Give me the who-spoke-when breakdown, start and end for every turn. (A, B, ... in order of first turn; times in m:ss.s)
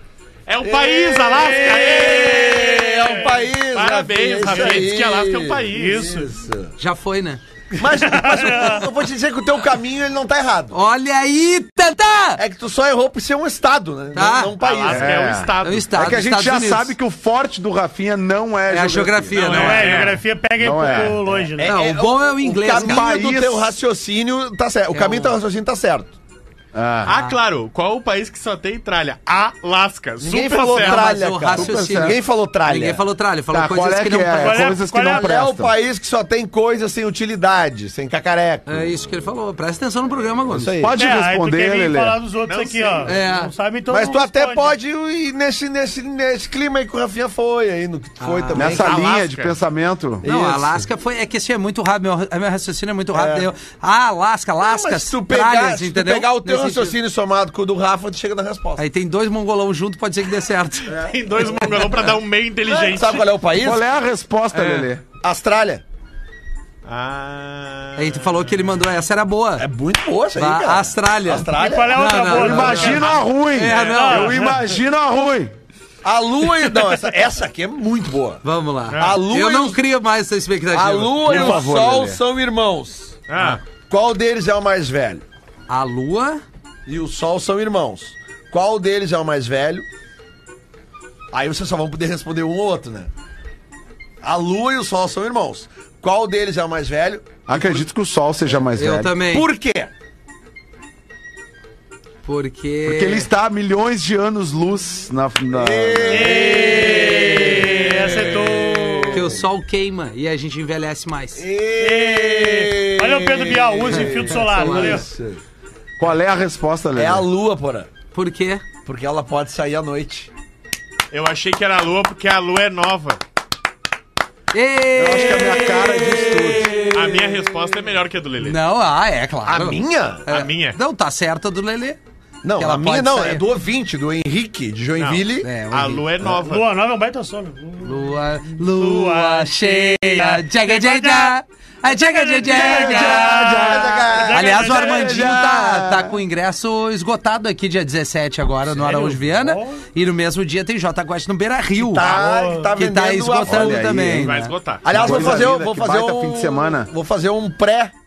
0:00.5-0:06.2 A
0:00.6-0:06.7 B
0:04.4-0:04.8 C
0:05.8-0:06.3 C
0:06.8-0:07.4 D
0:07.8-0:10.8 B
0:08.0-0:08.8 C
0:10.7-0:12.4 D
0:12.4-0:15.2 B
0:14.2-0:14.5 D
0:14.6-0:15.9 A
0:14.9-0:19.4 E
0:15.6-0:16.9 D
0:18.7-0:20.1 D
0:19.4-0:20.2 A
0:19.4-0:21.8 C
0:20.6-0:21.5 E
0:21.6-0:26.2 B
0:21.6-0:23.1 D
0:22.7-0:23.7 E
0:24.9-0:25.4 D
0:26.7-0:27.2 E
0:27.0-0:31.1 A
0:27.1-0:27.4 D
0:30.2-0:33.0 B
0:30.8-0:34.8 D
0:31.5-0:32.2 E
0:33.5-0:35.7 E
0:34.3-0:35.3 C
0:35.1-0:38.9 B
0:38.7-0:40.9 D
0:40.5-0:41.0 B
0:40.8-0:42.2 E
0:41.0-0:44.7 C
0:42.4-0:43.2 A
0:43.0-0:43.5 D
0:43.9-0:49.1 B
0:48.2-0:48.8 D
0:48.5-0:50.8 E
0:48.7-0:49.6 A
0:50.2-0:57.0 D
0:53.1-0:53.5 B
0:54.6-0:58.8 B
0:58.8-1:00.9 D
1:00.9-1:03.4 A
1:02.7-1:03.8 B
1:03.6-1:05.0 E
1:05.2-1:05.8 B
1:06.8-1:08.5 A
1:08.0-1:09.7 D
1:09.6-1:12.8 B
1:10.4-1:14.4 D
1:11.5-1:14.7 C
1:12.3-1:15.5 E
1:12.8-1:13.2 A
1:16.0-1:18.4 B
1:18.4-1:21.6 D
1:18.9-1:19.2 A
1:19.0-1:19.8 B
1:20.7-1:23.2 B
1:21.2-1:22.2 E
1:23.3-1:23.6 A
1:23.9-1:25.2 B
1:25.7-1:26.4 D
1:26.9-1:29.9 B
1:31.3-1:33.1 B
1:34.2-1:37.8 B
1:37.5-1:39.2 E
1:38.8-1:39.5 D
1:39.3-1:39.9 B
1:42.2-1:43.3 D
1:42.8-1:46.5 E
1:45.5-1:49.4 B
1:46.1-1:49.3 C
1:49.1-1:51.4 D
1:51.4-1:55.4 B
1:51.8-1:55.1 C
1:53.9-1:55.0 D
1:56.0-1:57.3 E
1:57.0-1:57.9 B
1:58.1-1:58.6 D
1:58.8-2:00.3 B
2:01.1-2:03.2 A
2:04.5-2:06.6 D
2:05.0-2:06.8 E
2:06.8-2:07.4 B
2:06.9-2:08.6 A
2:08.4-2:12.0 D
2:09.5-2:10.2 B
2:10.3-2:10.8 A
2:12.4-2:15.5 B
2:12.6-2:13.4 D
2:15.0-2:16.7 A
2:15.4-2:16.2 D
2:16.3-2:25.3 C
2:17.8-2:23.5 D
2:22.4-2:26.2 E
2:23.5-2:24.6 B
2:24.3-2:32.1 D
2:28.8-2:29.8 C
2:31.8-2:33.8 B
2:32.0-2:32.8 C
2:32.8-2:35.4 D
2:33.4-2:34.3 E
2:34.2-2:34.9 A
2:34.8-2:37.9 B
2:34.9-2:36.9 E